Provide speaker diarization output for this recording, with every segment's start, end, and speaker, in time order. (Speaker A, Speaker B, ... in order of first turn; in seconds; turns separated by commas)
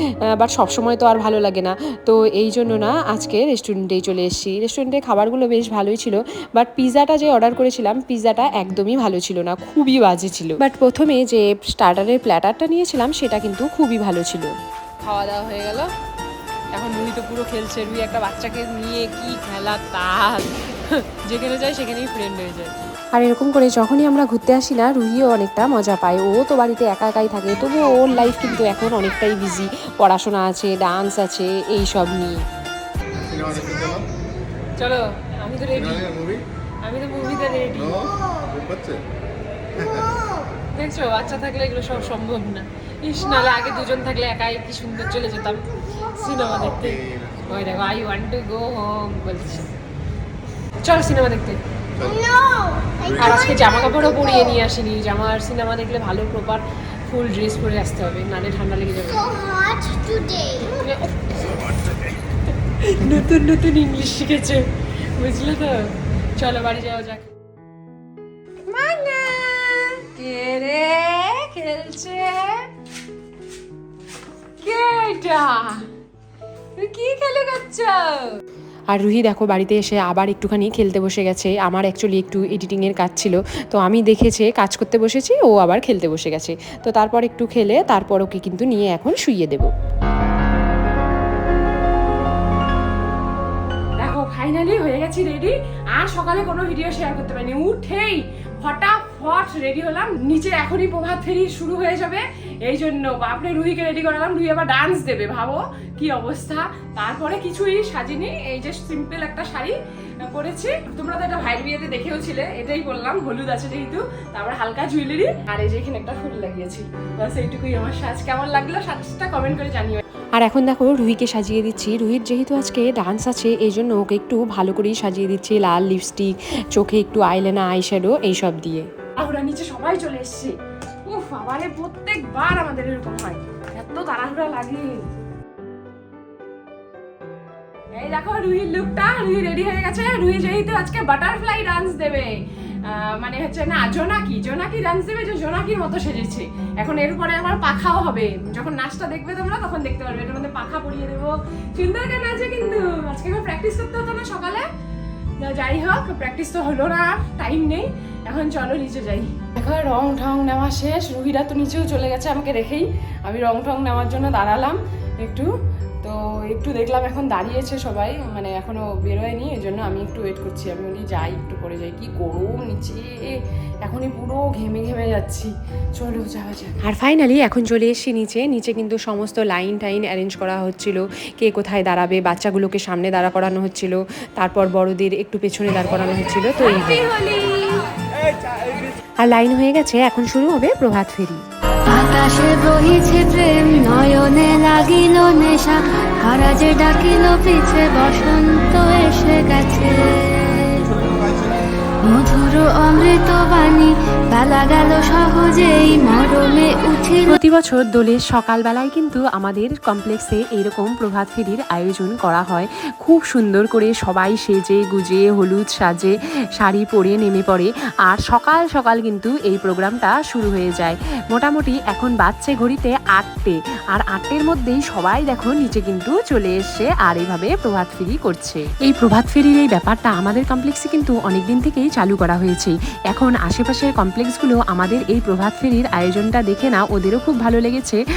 Speaker A: 0.3-14.5, Speaker B: 15.0-15.9, Speaker B: 16.7-22.7, Speaker A: 23.1-32.4, Speaker C: 33.1-34.1, Speaker D: 33.2-34.0, Speaker B: 34.8-36.2, Speaker D: 35.7-36.4, Speaker B: 36.8-38.1, Speaker C: 37.3-38.5, Speaker D: 37.7-39.0, Speaker C: 39.8-40.5, Speaker D: 39.8-40.1, Speaker B: 40.7-49.7, Speaker C: 43.2-43.9, Speaker C: 45.0-46.7, Speaker D: 46.8-47.4, Speaker B: 50.8-51.6, Speaker C: 52.0-54.6, Speaker B: 53.1-59.3, Speaker C: 59.0-60.8, Speaker B: 60.6-61.5, Speaker B: 62.8-64.6, Speaker B: 65.2-67.2, Speaker B: 68.7-72.6, Speaker B: 74.6-75.8, Speaker B: 76.8-78.3, Speaker A: 78.9-89.7, Speaker B: 94.0-120.0, Speaker A: 120.3-128.8, Speaker B: 129.2-130.5, Speaker B: 131.1-135.0, Speaker B: 137.9-154.7, Speaker B: 155.4-165.5, Speaker B: 166.0-176.8, Speaker A: 176.8-187.1, Speaker B: 186.6-187.8, Speaker A: 189.2-191.4, Speaker E: 191.9-200.9, Speaker D: 200.7-201.7, Speaker E: 202.1-207.4, Speaker A: 207.2-238.0